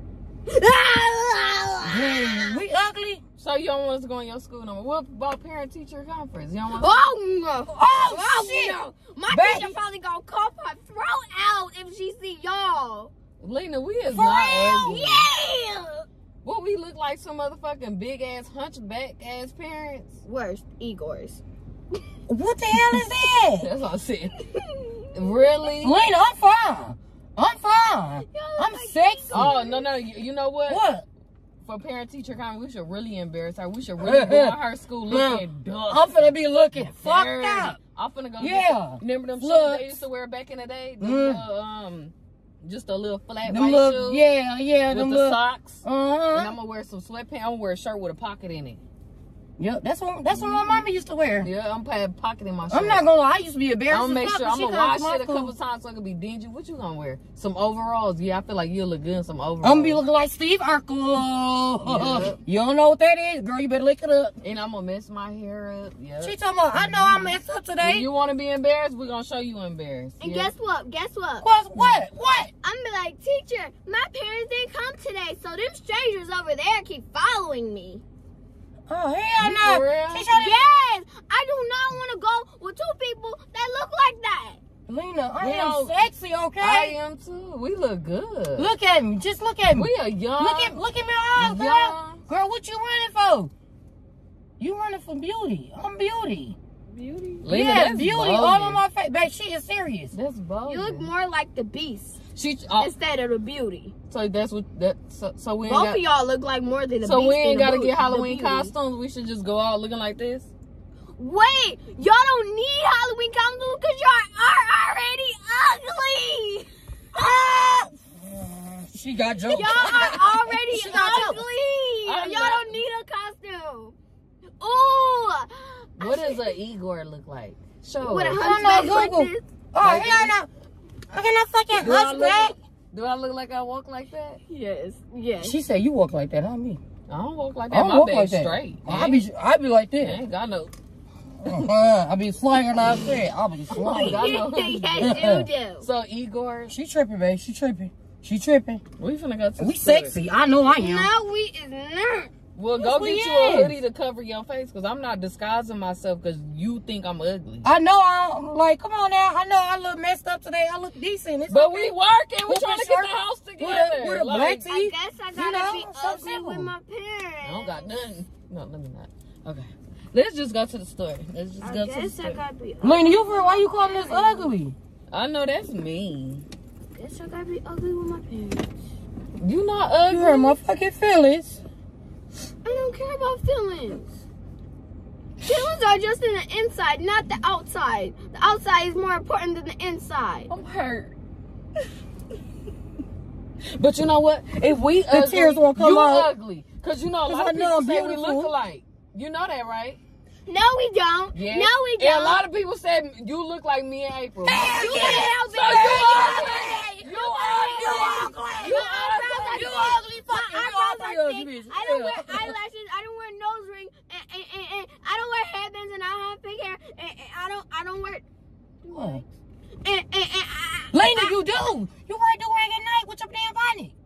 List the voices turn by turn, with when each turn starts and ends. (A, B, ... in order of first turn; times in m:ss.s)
0:00.5-0:02.6 A
0:01.9-0:03.2 B
0:03.4-0:07.0 C
0:06.8-0:13.1 A
0:07.7-0:09.8 B
0:13.4-0:15.3 C
0:14.1-0:16.1 A
0:16.4-0:20.2 C
0:20.2-0:21.4 A
0:22.3-0:23.7 B
0:22.9-0:24.4 C
0:24.4-0:25.1 A
0:25.1-0:26.0 C
0:25.8-0:29.6 B
0:28.3-0:29.8 A
0:29.3-0:30.8 C
0:30.7-0:31.0 B
0:31.6-0:44.3 C
0:34.0-0:37.8 B
0:38.4-0:40.0 B
0:41.0-0:41.4 B
0:43.4-0:46.6 B
0:44.9-0:48.8 C
0:49.6-0:51.5 B
0:50.5-0:50.8 A
0:51.4-0:53.0 C
0:52.7-0:55.5 B
0:53.9-1:00.0 C
0:59.6-1:04.4 B
1:01.9-1:02.4 C
1:04.4-1:10.5 C
1:06.2-1:08.1 B
1:10.2-1:11.5 A
1:11.4-1:12.5 B
1:12.6-1:18.0 A
1:18.9-1:20.6 B
1:19.4-1:20.3 C
1:20.3-1:24.6 A
1:24.9-1:27.0 B
1:25.4-1:26.0 C
1:26.6-1:28.7 C
1:28.6-1:33.5 B
1:29.7-1:30.8 C
1:31.4-1:32.2 C
1:34.6-1:36.6 B
1:36.9-1:37.5 A
1:37.4-1:38.8 C
1:37.5-1:40.1 B
1:40.1-1:41.1 C
1:40.7-1:42.2 A
1:42.4-1:42.9 C
1:42.8-1:43.9 A
1:44.1-1:46.0 C
1:45.6-1:48.7 A
1:47.0-1:50.5 C
1:51.2-1:56.7 A
1:57.1-2:01.4 B
1:59.5-2:04.0 A
2:02.1-2:02.8 C
2:04.6-2:06.5 A
2:06.0-2:08.5 C
2:08.0-2:09.4 A
2:08.4-2:10.5 B
2:09.8-2:10.3 C
2:11.1-2:12.6 B
2:11.7-2:14.4 C
2:14.5-2:15.6 A
2:15.4-2:16.8 B
2:17.1-2:19.2 C
2:17.7-2:20.2 B
2:20.0-2:20.7 C
2:21.4-2:24.4 B
2:23.8-2:25.2 C
2:23.8-2:25.9 A
2:25.0-2:25.5 B
2:25.8-2:26.8 C
2:26.7-2:28.8 B
2:29.0-2:30.2 C
2:29.6-2:31.1 B
2:30.7-2:32.3 A
2:32.6-2:37.7 C
2:32.8-2:33.8 B
2:37.6-2:46.7 B
2:41.5-2:44.7 C
2:44.7-2:47.9 A
2:47.4-2:52.4 C
2:51.6-2:54.5 A
2:52.8-2:54.8 B
2:55.1-2:56.5 C
2:56.9-2:58.7 A
2:59.4-3:00.6 C
3:00.1-3:01.6 B
3:02.6-3:04.1 A
3:05.4-3:10.5 A
3:10.5-3:11.1 C
3:13.8-3:20.0 C
3:15.1-3:16.3 B
3:17.3-3:18.5 B
3:20.5-3:22.4 A
3:21.3-3:30.0 C
3:24.4-3:32.6 B
3:24.6-3:38.2 A
3:38.8-3:39.3 A
3:38.9-3:39.2 B
3:39.8-3:41.4 A
3:40.9-3:43.9 B